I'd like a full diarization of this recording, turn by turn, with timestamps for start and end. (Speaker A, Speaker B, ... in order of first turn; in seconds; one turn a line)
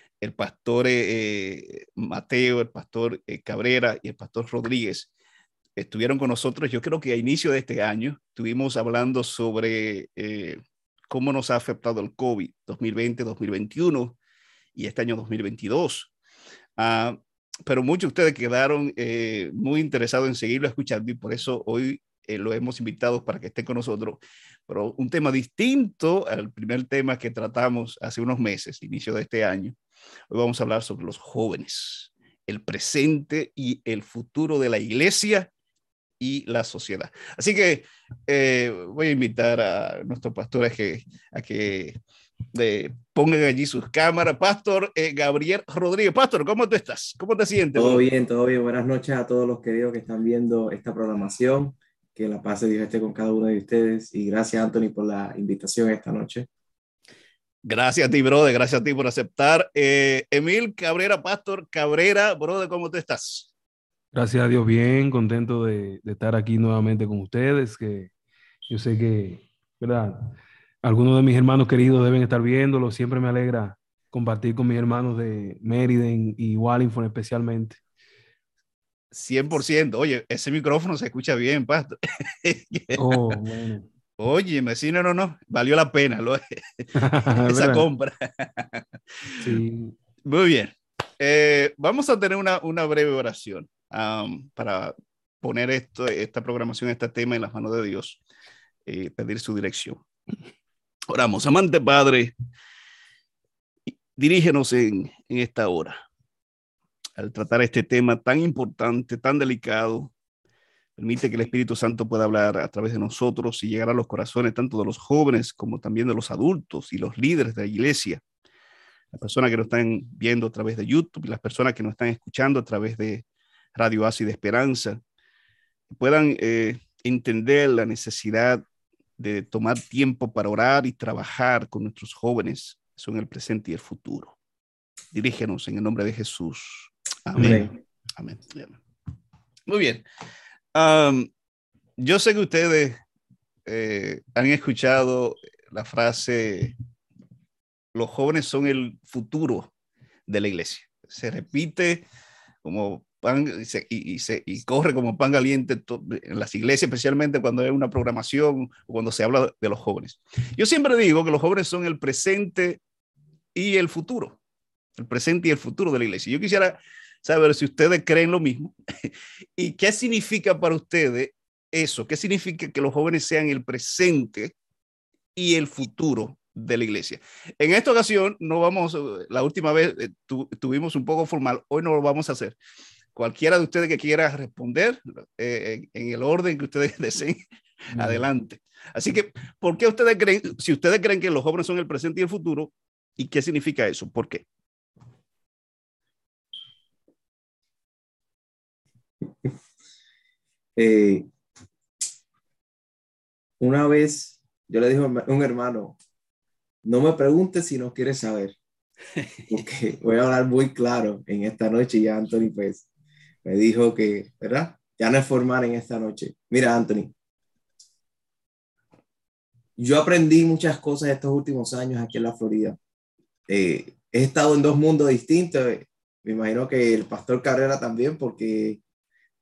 Speaker A: 0.2-5.1
Speaker A: 5.8-14.2
Speaker A: 14.8-16.1
Speaker A: 16.8-29.7
Speaker A: 30.3-35.5
Speaker A: 36.2-42.0
Speaker A: 42.5-48.0
Speaker B: 47.8-56.5
Speaker A: 57.6-63.5
Speaker C: 64.1-68.1
Speaker C: 68.7-70.3
Speaker C: 70.8-77.8
Speaker A: 79.1-83.2
Speaker C: 82.9-83.9
Speaker A: 84.2-89.4
Speaker C: 87.0-87.8
Speaker C: 89.4-89.9
Speaker A: 90.2-98.2
Speaker A: 98.8-100.0
Speaker A: 101.1-102.3
Speaker A: 104.1-106.0
Speaker A: 107.2-110.1
Speaker A: 111.0-118.2
Speaker A: 119.1-123.2
Speaker A: 123.7-125.0
Speaker A: 125.9-128.6
Speaker A: 129.2-134.3
Speaker A: 135.1-138.7
Speaker C: 137.4-137.7
Speaker B: 137.4-137.7
Speaker A: 139.7-140.0
Speaker A: 140.7-141.3
Speaker A: 142.0-142.9
Speaker A: 143.7-146.7
Speaker A: 147.9-149.7
Speaker A: 150.3-152.0
Speaker A: 152.6-162.8
Speaker A: 163.5-164.4
Speaker A: 165.0-174.5
Speaker A: 175.3-182.6
Speaker A: 183.1-187.4
Speaker A: 187.9-194.4
Speaker B: 200.8-201.3
Speaker B: 203.6-206.0
Speaker B: 206.8-208.6
Speaker B: 209.5-212.8
Speaker B: 213.4-217.1
Speaker B: 219.8-222.8
Speaker B: 223.5-228.8